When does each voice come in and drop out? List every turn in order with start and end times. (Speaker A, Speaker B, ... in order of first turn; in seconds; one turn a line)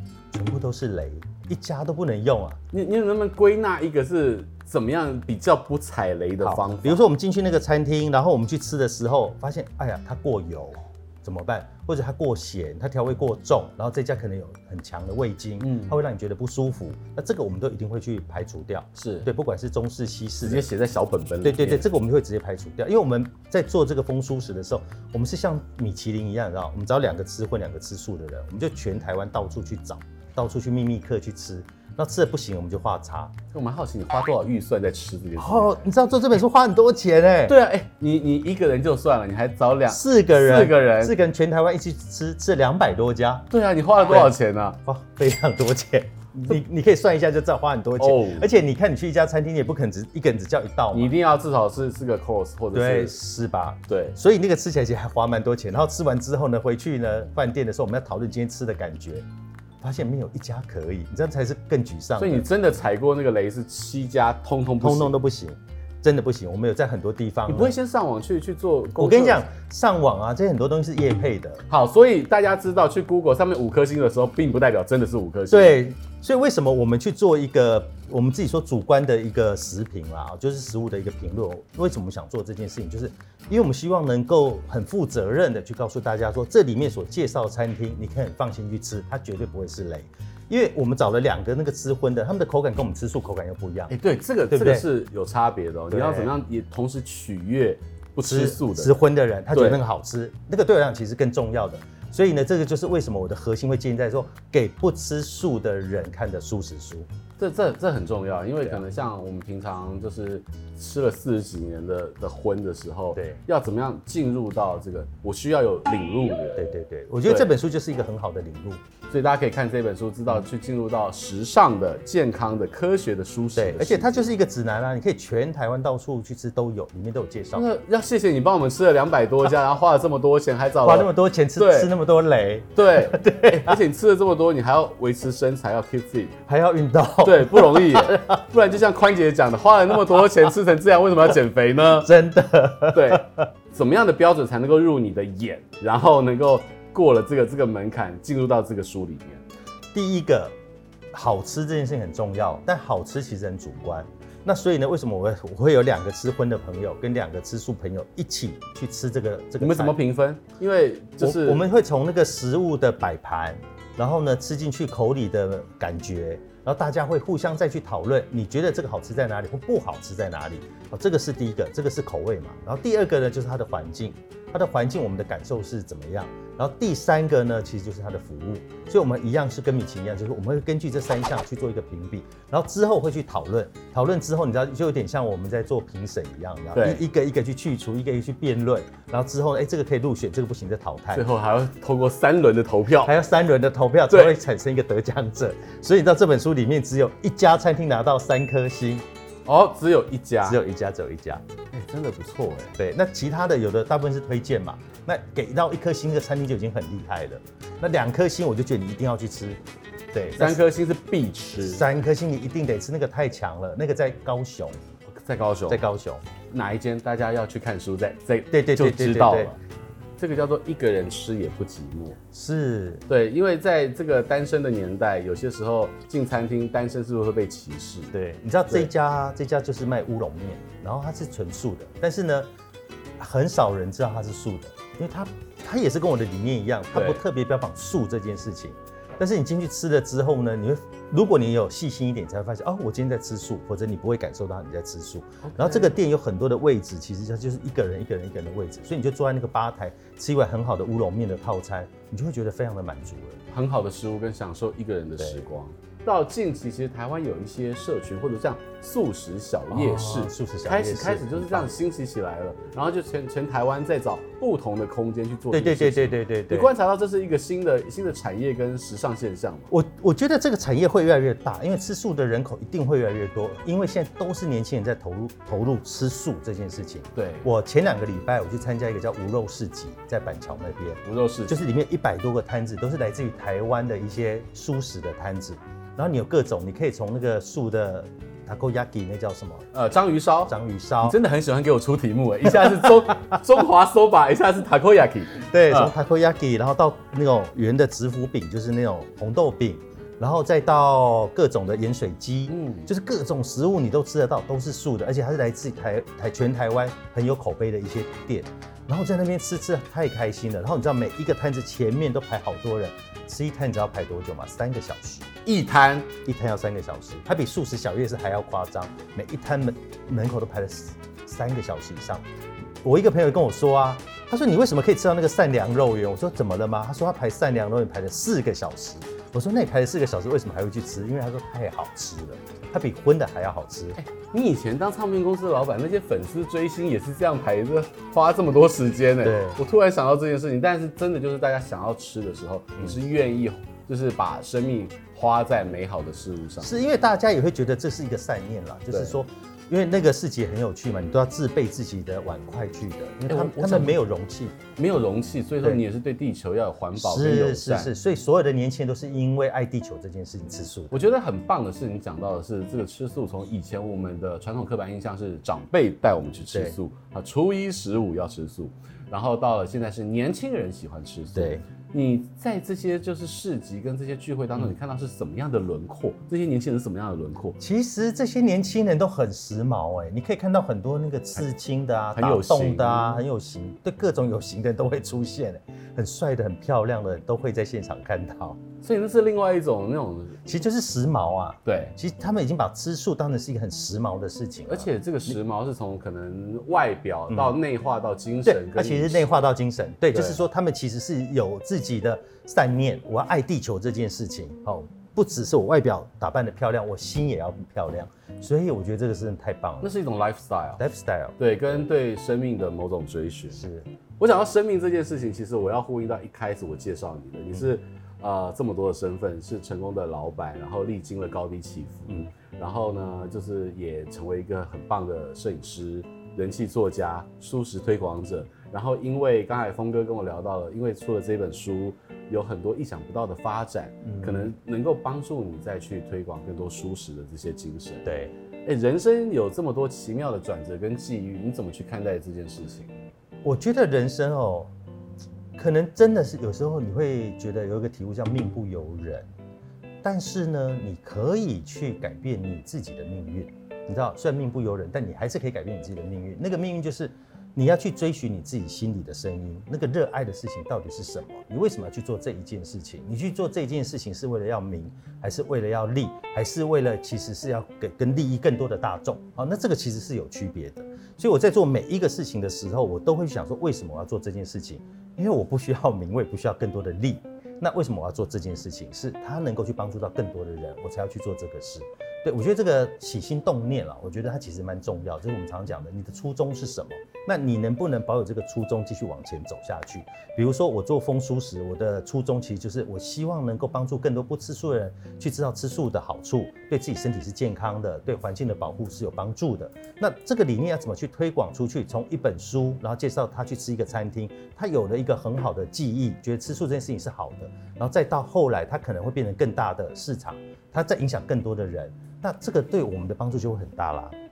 Speaker A: 0.3-2.6
Speaker B: 2.7-7.0
Speaker A: 6.4-20.7
Speaker B: 15.6-16.0
Speaker B: 19.0-19.3
Speaker B: 20.4-21.9
Speaker A: 21.4-33.4
Speaker B: 33.5-35.9
Speaker A: 35.4-37.6
Speaker B: 37.5-41.2
Speaker A: 39.9-43.5
Speaker B: 43.5-44.8
Speaker A: 44.1-51.1
Speaker B: 48.0-48.5
Speaker B: 50.9-53.2
Speaker A: 52.7-59.2
Speaker B: 53.9-54.2
Speaker A: 59.8-62.5
Speaker B: 62.2-65.2
Speaker A: 64.8-67.8
Speaker B: 67.5-69.5
Speaker A: 69.0-71.6
Speaker B: 71.7-75.8
Speaker A: 75.5-94.0
Speaker B: 93.9-99.0
Speaker A: 94.5-94.9
Speaker A: 95.9-96.3
Speaker A: 98.2-107.1
Speaker B: 99.5-99.8
Speaker B: 107.4-116.7
Speaker A: 113.2-113.4
Speaker A: 116.6-118.8
Speaker B: 117.2-117.5
Speaker B: 119.1-124.3
Speaker A: 123.6-127.7
Speaker B: 127.5-131.9
Speaker A: 130.8-133.8
Speaker B: 132.8-136.4
Speaker A: 136.5-138.4
Speaker B: 137.2-142.1
Speaker A: 142.0-143.5
Speaker B: 142.9-149.4
Speaker A: 149.9-150.5
Speaker A: 151.1-160.0
Speaker B: 159.6-161.7
Speaker A: 161.2-191.3
Speaker B: 186.7-187.0
Speaker B: 191.1-193.2
Speaker A: 193.0-199.0
Speaker B: 194.1-194.4
Speaker B: 199.4-200.6
Speaker A: 200.4-201.4
Speaker B: 201.7-202.8
Speaker A: 202.8-209.6
Speaker A: 210.1-210.6
Speaker B: 210.4-211.8
Speaker A: 211.6-214.8
Speaker B: 215.1-215.9
Speaker A: 215.7-216.2
Speaker B: 216.5-219.6
Speaker A: 218.5-219.6
Speaker B: 220.2-222.2
Speaker A: 222.3-223.1
Speaker B: 223.1-228.1
Speaker A: 228.1-232.5
Speaker A: 233.2-253.4
Speaker B: 236.9-237.2
Speaker B: 245.4-246.0
Speaker B: 253.5-269.7
Speaker A: 259.7-261.7
Speaker A: 265.5-266.7
Speaker A: 269.7-289.7
Speaker B: 277.1-277.5
Speaker B: 281.0-281.6
Speaker B: 289.7-295.9
Speaker A: 290.5-291.2
Speaker A: 295.5-315.3
Speaker B: 302.5-302.9
Speaker B: 315.4-316.1
Speaker A: 316.2-322.2
Speaker A: 322.8-334.0
Speaker B: 334.0-346.8
Speaker A: 339.2-339.6
Speaker A: 346.6-354.6
Speaker B: 348.9-349.2
Speaker B: 353.3-354.0
Speaker B: 354.8-357.9
Speaker A: 357.0-361.1
Speaker B: 360.9-377.6
Speaker A: 371.4-371.6
Speaker A: 377.6-388.6
Speaker B: 382.1-383.2
Speaker B: 388.8-390.4
Speaker A: 390.4-395.4
Speaker B: 391.6-391.9
Speaker B: 394.7-399.3
Speaker A: 398.4-409.9
Speaker B: 400.1-400.4
Speaker B: 409.8-410.8
Speaker A: 410.8-411.4
Speaker B: 411.4-413.7
Speaker A: 413.5-413.9
Speaker B: 414.2-438.1
Speaker A: 434.0-434.5
Speaker A: 438.1-438.3
Speaker B: 438.6-442.9
Speaker A: 443.4-444.7
Speaker A: 445.6-449.3
Speaker A: 450.0-514.1